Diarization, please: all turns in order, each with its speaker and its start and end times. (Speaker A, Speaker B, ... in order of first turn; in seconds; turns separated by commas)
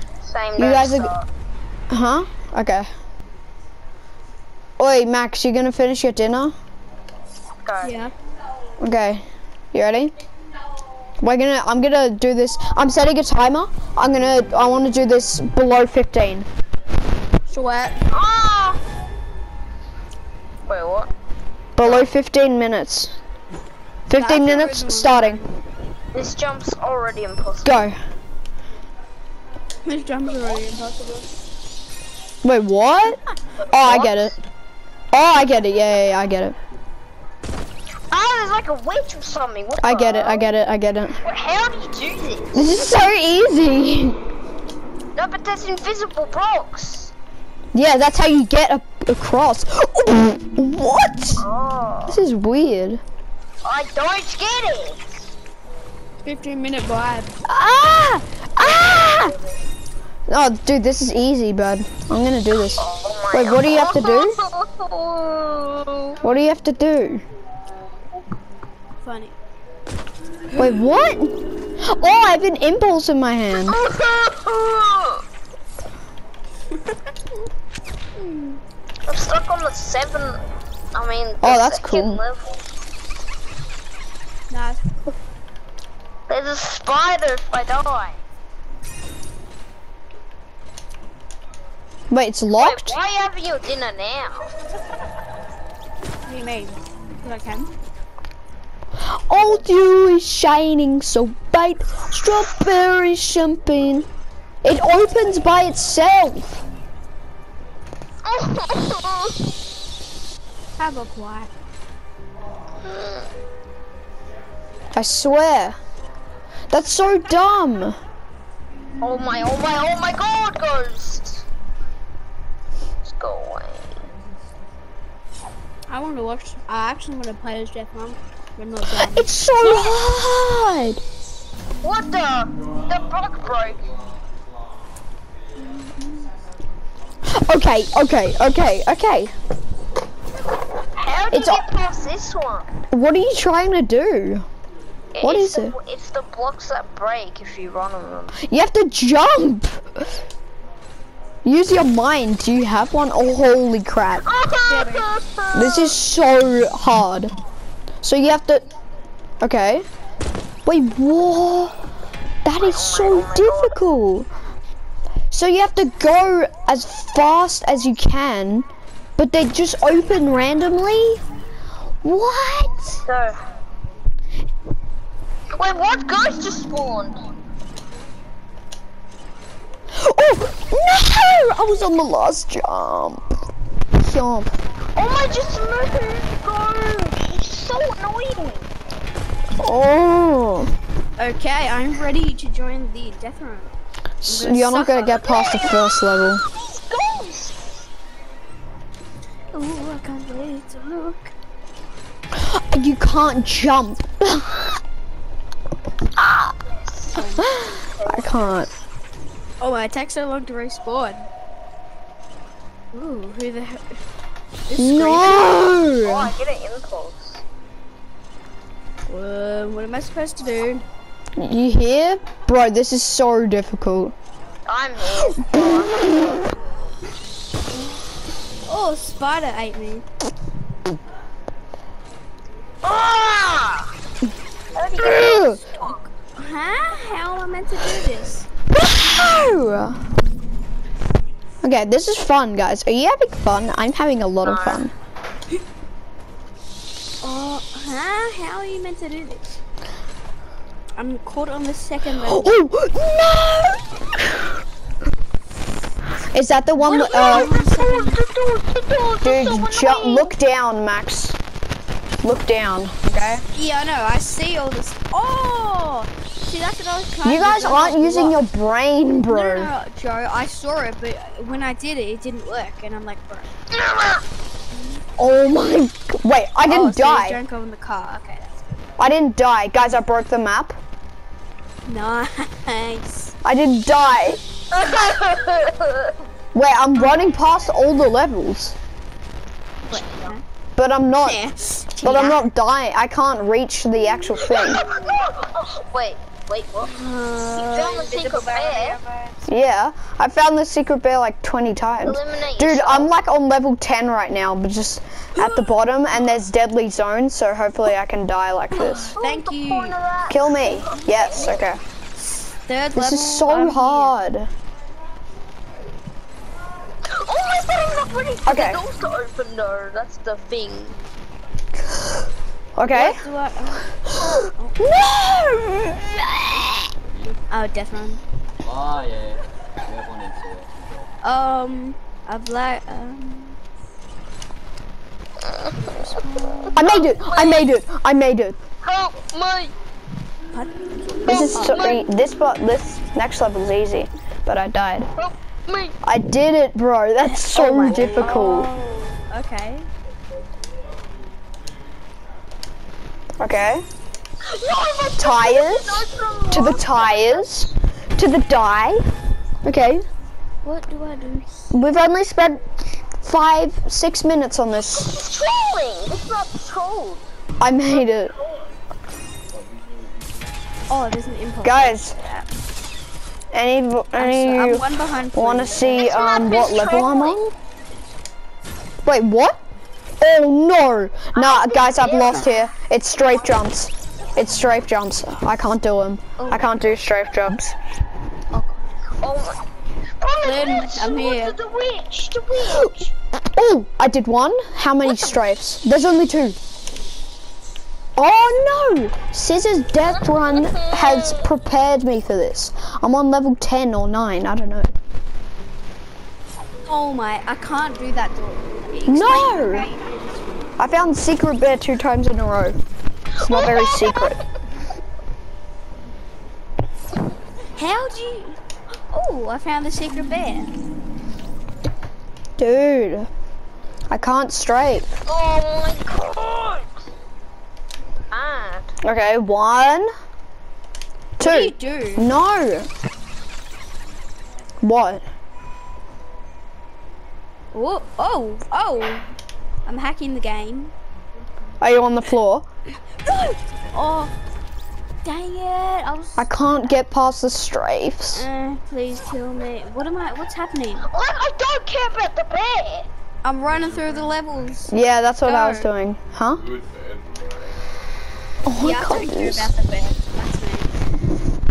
Speaker A: 0.3-1.2, Speaker B: 0.6-1.1, Speaker B: 1.9-2.9, Speaker B: 4.8-6.5, Speaker A: 7.7-8.0, Speaker C: 7.8-8.1, Speaker B: 8.8-10.1, Speaker B: 11.2-16.5, Speaker C: 17.5-18.0, Speaker A: 18.1-18.8, Speaker A: 20.7-21.1, Speaker B: 21.8-23.2, Speaker A: 21.8-22.1, Speaker B: 24.1-25.4, Speaker C: 24.1-25.5, Speaker A: 26.1-27.9, Speaker B: 27.6-28.0, Speaker C: 29.9-31.2, Speaker B: 32.4-33.2, Speaker B: 33.7-34.4, Speaker A: 33.8-34.3, Speaker B: 35.1-36.6, Speaker A: 38.1-40.5, Speaker B: 39.8-41.2, Speaker A: 41.2-42.7, Speaker B: 42.5-44.2, Speaker A: 45.2-47.1, Speaker B: 47.7-51.5, Speaker A: 51.4-52.2, Speaker B: 52.1-53.0, Speaker A: 53.6-55.3, Speaker C: 56.2-57.3, Speaker B: 57.5-59.3, Speaker A: 58.6-59.5, Speaker B: 60.3-64.4, Speaker A: 62.8-66.2, Speaker B: 66.2-67.2, Speaker C: 69.0-69.3, Speaker C: 70.5-70.9, Speaker B: 70.6-73.8, Speaker A: 73.7-75.2, Speaker C: 78.2-78.6, Speaker A: 79.1-80.4, Speaker A: 80.9-82.6, Speaker B: 81.4-82.2, Speaker C: 84.5-84.8, Speaker A: 86.3-88.2, Speaker B: 92.1-93.0, Speaker A: 92.6-94.5, Speaker C: 96.3-97.7, Speaker B: 99.3-104.1, Speaker B: 104.6-106.6, Speaker A: 108.2-109.4, Speaker C: 110.8-111.5, Speaker A: 112.8-113.3, Speaker B: 114.9-115.8, Speaker B: 116.7-118.0, Speaker A: 119.0-121.4, Speaker A: 123.0-124.0, Speaker C: 125.9-129.3, Speaker B: 128.9-131.0, Speaker A: 129.7-130.0, Speaker A: 131.8-133.9, Speaker C: 135.6-136.3, Speaker B: 137.4-139.3, Speaker A: 141.0-142.7, Speaker B: 141.3-141.7, Speaker B: 142.9-144.5, Speaker A: 145.1-148.4, Speaker B: 145.2-145.8, Speaker B: 148.4-149.8, Speaker B: 151.4-154.2, Speaker A: 154.2-156.0, Speaker C: 154.7-155.1, Speaker B: 155.5-157.3, Speaker B: 158.0-158.6, Speaker B: 159.4-159.8, Speaker B: 160.7-161.8, Speaker B: 162.4-164.3, Speaker A: 162.6-163.8, Speaker B: 165.3-168.7, Speaker B: 169.2-171.2, Speaker B: 172.0-173.0, Speaker A: 173.1-173.3, Speaker A: 175.6-177.2, Speaker B: 179.9-183.2, Speaker B: 184.0-184.5, Speaker A: 185.0-188.7, Speaker B: 189.6-190.7, Speaker C: 191.2-193.7, Speaker B: 194.2-196.4, Speaker C: 194.3-195.3, Speaker A: 195.2-196.0, Speaker A: 196.6-197.6, Speaker C: 199.5-201.3, Speaker B: 202.4-204.7, Speaker A: 206.2-207.2, Speaker C: 207.1-207.7, Speaker B: 207.4-208.7, Speaker A: 208.0-208.6, Speaker C: 209.6-211.3, Speaker C: 212.9-214.0, Speaker C: 214.7-215.7, Speaker B: 214.8-216.3, Speaker A: 215.9-217.4, Speaker C: 219.1-220.8, Speaker B: 221.4-224.1, Speaker A: 224.7-226.5, Speaker B: 225.4-226.3, Speaker C: 228.7-230.1, Speaker A: 232.8-233.9, Speaker A: 234.8-236.1, Speaker B: 235.0-235.6, Speaker C: 236.3-238.5, Speaker B: 238.9-240.0, Speaker B: 241.6-244.9, Speaker A: 244.4-244.9, Speaker C: 247.2-249.6, Speaker C: 251.0-252.6, Speaker B: 252.2-254.5, Speaker B: 256.3-257.5, Speaker C: 256.8-258.2, Speaker A: 257.1-260.4, Speaker B: 259.2-261.4, Speaker B: 262.2-263.4, Speaker C: 263.5-268.4, Speaker B: 267.2-269.7, Speaker C: 269.3-273.5, Speaker A: 273.7-274.2, Speaker B: 275.2-277.4, Speaker C: 276.7-278.8, Speaker B: 279.0-280.8, Speaker C: 281.9-283.4, Speaker B: 283.4-284.4, Speaker A: 284.7-286.1, Speaker B: 286.5-288.8, Speaker C: 286.9-287.3, Speaker C: 289.9-290.4, Speaker A: 289.9-290.3, Speaker B: 290.8-291.4, Speaker C: 291.2-292.5, Speaker B: 292.0-294.8, Speaker A: 294.4-296.9, Speaker C: 296.8-299.5, Speaker A: 297.5-299.0, Speaker B: 299.5-309.1, Speaker A: 302.0-303.1, Speaker C: 305.4-305.7, Speaker C: 308.7-310.0, Speaker A: 309.2-311.6, Speaker B: 310.3-311.8, Speaker C: 310.8-311.6, Speaker C: 312.7-314.2, Speaker B: 312.9-314.5, Speaker A: 317.1-321.0, Speaker B: 318.4-318.8, Speaker B: 322.8-323.2, Speaker C: 322.9-324.8, Speaker B: 324.2-326.8, Speaker C: 327.5-328.2, Speaker D: 328.7-331.1, Speaker C: 331.2-333.6, Speaker C: 335.7-336.9, Speaker A: 336.7-337.7, Speaker B: 336.8-338.6, Speaker A: 338.8-339.7, Speaker C: 340.5-342.0, Speaker B: 341.2-345.1, Speaker A: 341.3-342.1, Speaker A: 345.2-345.9, Speaker B: 346.0-348.7, Speaker C: 347.5-349.9, Speaker B: 353.4-353.8, Speaker A: 354.5-357.5, Speaker B: 355.2-359.0, Speaker B: 359.6-360.0, Speaker C: 360.6-361.7, Speaker B: 361.7-362.6, Speaker B: 363.2-365.2, Speaker A: 365.0-367.2, Speaker B: 367.6-368.3, Speaker A: 367.9-368.7, Speaker D: 369.5-370.5, Speaker C: 370.9-372.5, Speaker B: 371.6-372.1, Speaker B: 373.5-377.5, Speaker C: 374.2-376.4, Speaker A: 375.9-377.4, Speaker B: 379.1-379.6, Speaker B: 380.2-387.8, Speaker A: 381.3-382.6, Speaker C: 386.4-386.7, Speaker C: 388.5-388.8, Speaker A: 389.2-389.6, Speaker A: 390.2-393.1, Speaker C: 390.4-391.6, Speaker B: 392.7-393.1, Speaker B: 393.6-396.6, Speaker A: 395.1-395.3, Speaker B: 398.2-404.9, Speaker A: 400.1-401.5, Speaker C: 406.8-410.6, Speaker B: 409.1-409.9, Speaker B: 410.8-412.8, Speaker A: 413.4-414.4, Speaker B: 413.4-414.4, Speaker C: 417.8-418.6, Speaker C: 419.1-420.7, Speaker B: 422.6-423.3, Speaker B: 424.1-425.1, Speaker A: 425.3-427.0, Speaker A: 428.3-428.9, Speaker B: 429.0-430.1, Speaker C: 431.4-432.3, Speaker B: 431.4-432.9, Speaker B: 434.8-435.2, Speaker C: 437.7-439.2, Speaker C: 439.9-440.9, Speaker B: 441.8-442.6, Speaker C: 443.2-444.3, Speaker C: 445.2-446.5, Speaker B: 446.4-448.5, Speaker C: 448.3-451.1, Speaker A: 451.1-453.1, Speaker C: 453.4-455.9, Speaker B: 454.9-456.6, Speaker B: 458.7-459.7, Speaker C: 458.8-460.9